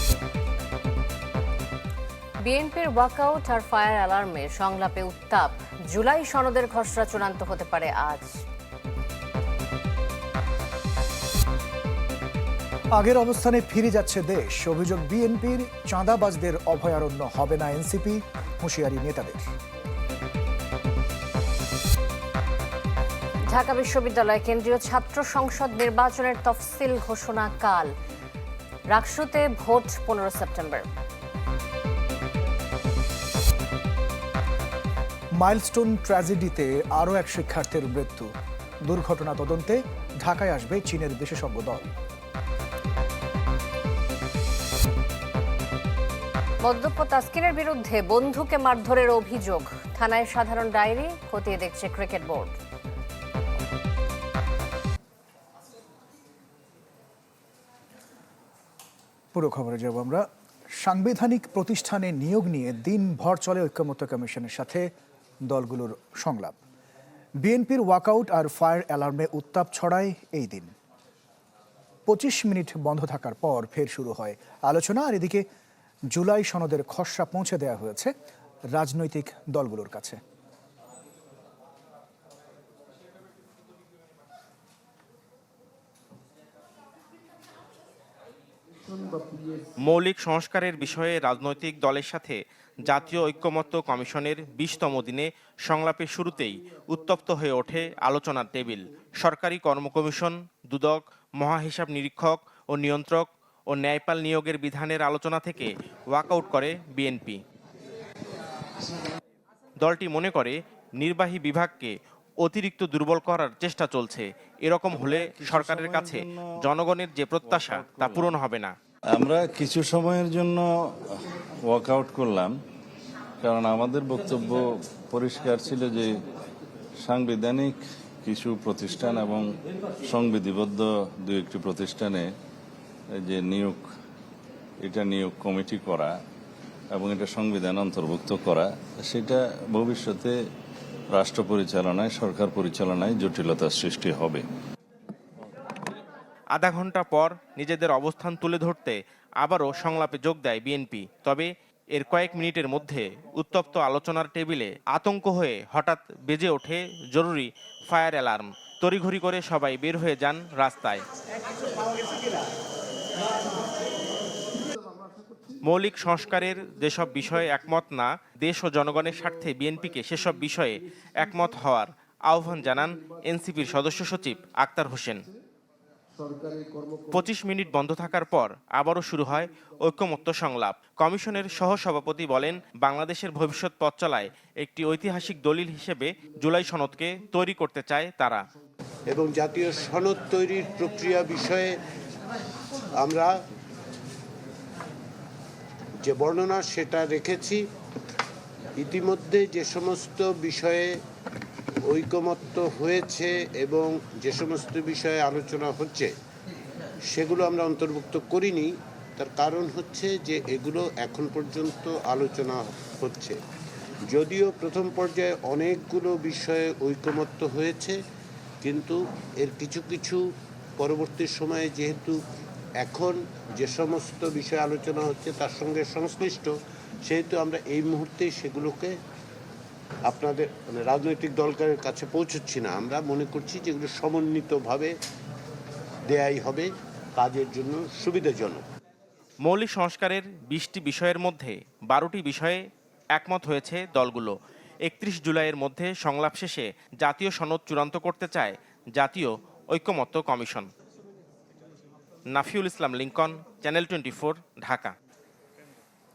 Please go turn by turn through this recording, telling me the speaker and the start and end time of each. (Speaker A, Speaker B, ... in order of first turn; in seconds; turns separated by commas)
Speaker A: 2.4-8.3, Speaker B: 12.9-19.4, Speaker A: 23.5-27.9, Speaker A: 28.9-30.9, Speaker B: 35.4-38.3, Speaker B: 38.9-41.9, Speaker A: 46.6-52.5, Speaker B: 59.3-60.2, Speaker B: 60.8-64.9, Speaker B: 65.5-66.6, Speaker B: 67.4-70.7, Speaker B: 72.1-75.4, Speaker B: 76.1-78.1, Speaker B: 78.7-80.2, Speaker C: 89.8-107.4, Speaker C: 109.8-118.8, Speaker D: 114.9-116.4, Speaker D: 117.4-118.2, Speaker D: 119.1-120.7, Speaker D: 121.6-122.5, Speaker D: 123.4-126.2, Speaker D: 127.0-132.3, Speaker D: 133.1-133.8, Speaker D: 134.8-136.2, Speaker D: 136.9-140.3, Speaker D: 141.1-144.4, Speaker C: 146.5-161.0, Speaker C: 165.7-175.2, Speaker C: 177.1-188.4, Speaker E: 189.1-191.7, Speaker E: 193.0-193.3, Speaker E: 196.0-197.6, Speaker E: 198.8-200.9, Speaker E: 201.9-206.1, Speaker E: 207.1-213.3, Speaker E: 214.1-217.9, Speaker E: 218.6-220.2, Speaker E: 220.8-222.2, Speaker E: 222.8-226.5, Speaker E: 227.1-228.9, Speaker E: 230.1-234.9, Speaker E: 236.1-238.6, Speaker C: 239.4-250.7, Speaker C: 252.3-254.9